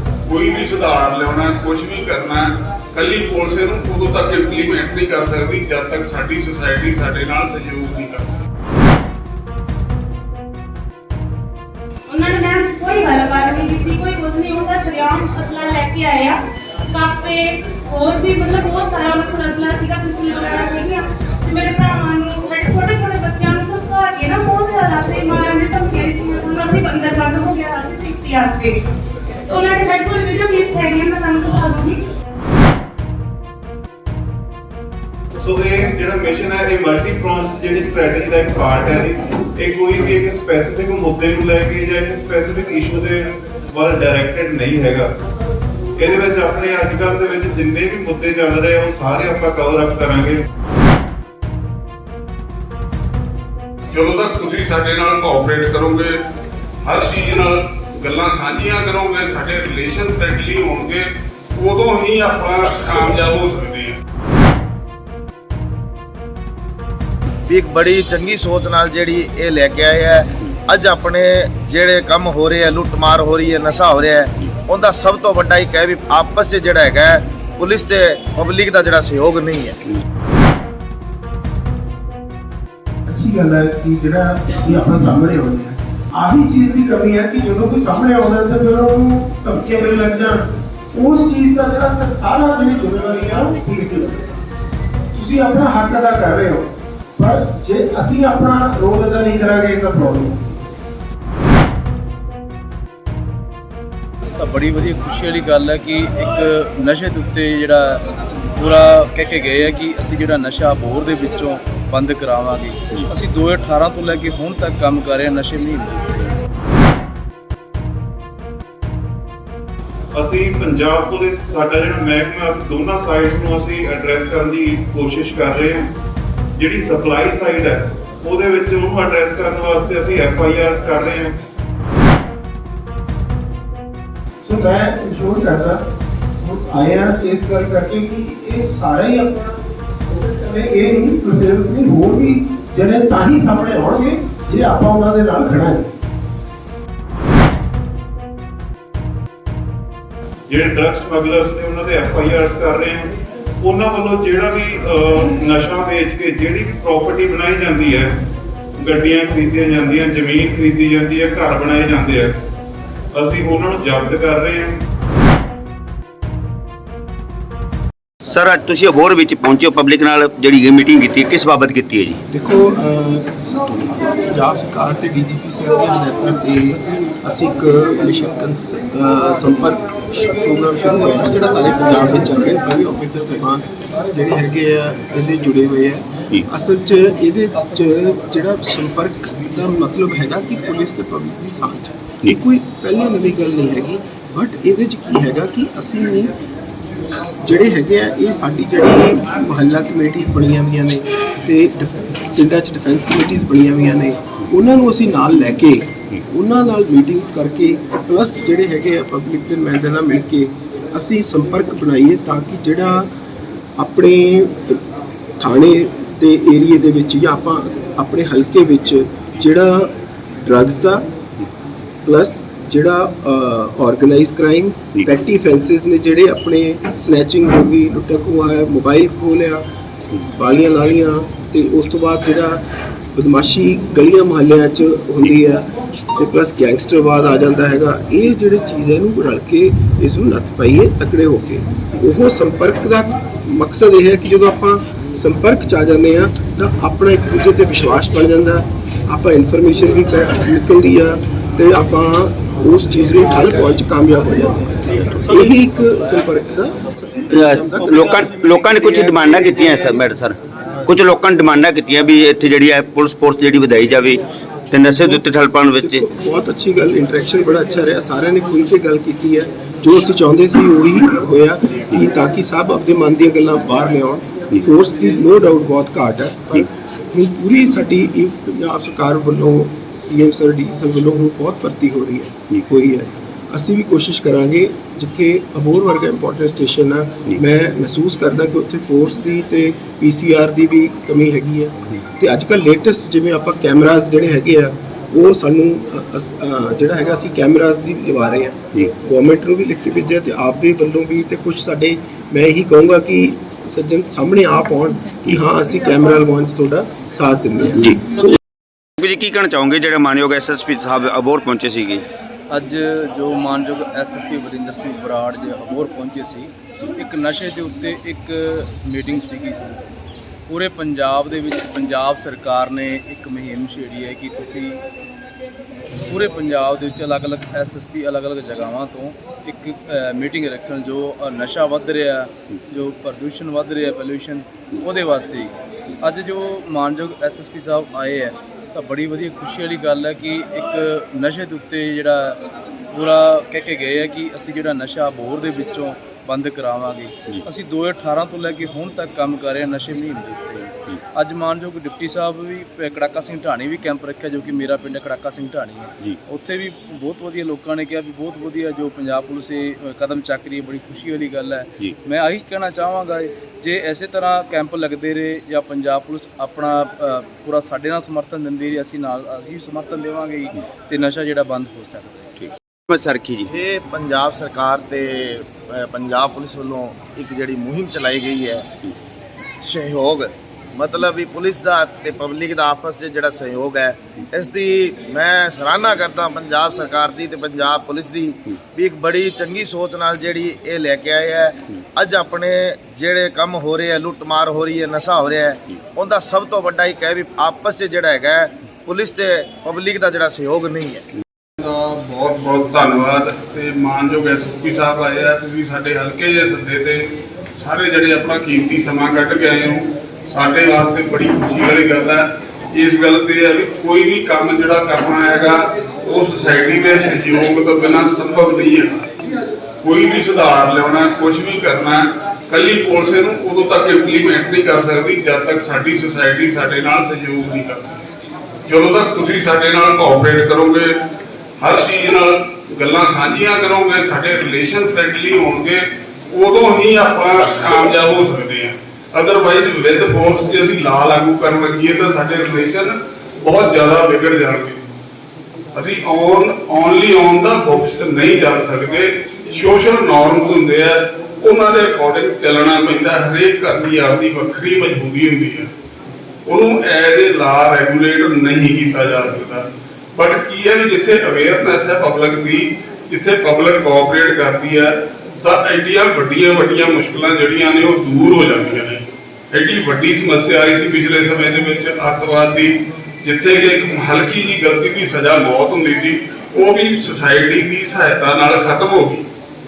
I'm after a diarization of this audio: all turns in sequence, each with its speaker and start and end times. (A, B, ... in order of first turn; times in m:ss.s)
0:00.2-0:08.4 A
0:12.1-0:28.8 B
0:29.5-0:32.0 B
0:35.4-0:45.1 C
0:46.0-0:50.4 C
0:53.9-0:56.2 A
0:56.8-1:04.0 A
1:07.5-1:19.8 D
1:23.1-1:34.2 E
1:35.1-1:40.4 E
1:44.4-1:56.4 F
2:00.1-2:05.9 C
2:06.6-2:11.4 C
2:14.4-2:15.8 E
2:16.4-2:25.9 E
2:30.5-2:38.2 C
2:38.8-2:42.3 C
2:43.1-2:44.8 C
2:48.3-2:52.2 G
2:52.3-3:16.3 E
3:17.4-3:33.1 E
3:33.8-3:34.8 E
3:35.4-3:39.9 E
3:40.4-3:41.1 E
3:42.0-3:49.6 E
3:50.2-3:52.6 E
3:53.2-4:20.0 E
4:17.3-4:26.0 G
4:25.8-5:08.2 E
5:09.0-5:12.0 G
5:12.5-5:19.9 F
5:20.5-5:24.8 F
5:26.1-5:42.4 F
5:42.9-6:12.2 F
6:12.4-6:13.5 G
6:13.5-6:18.7 D
6:19.6-6:41.1 D
6:41.6-6:59.1 A
6:59.8-7:07.9 A
7:08.7-7:11.0 A
7:11.6-7:24.8 A
7:25.7-7:35.7 A
7:36.5-7:59.3 A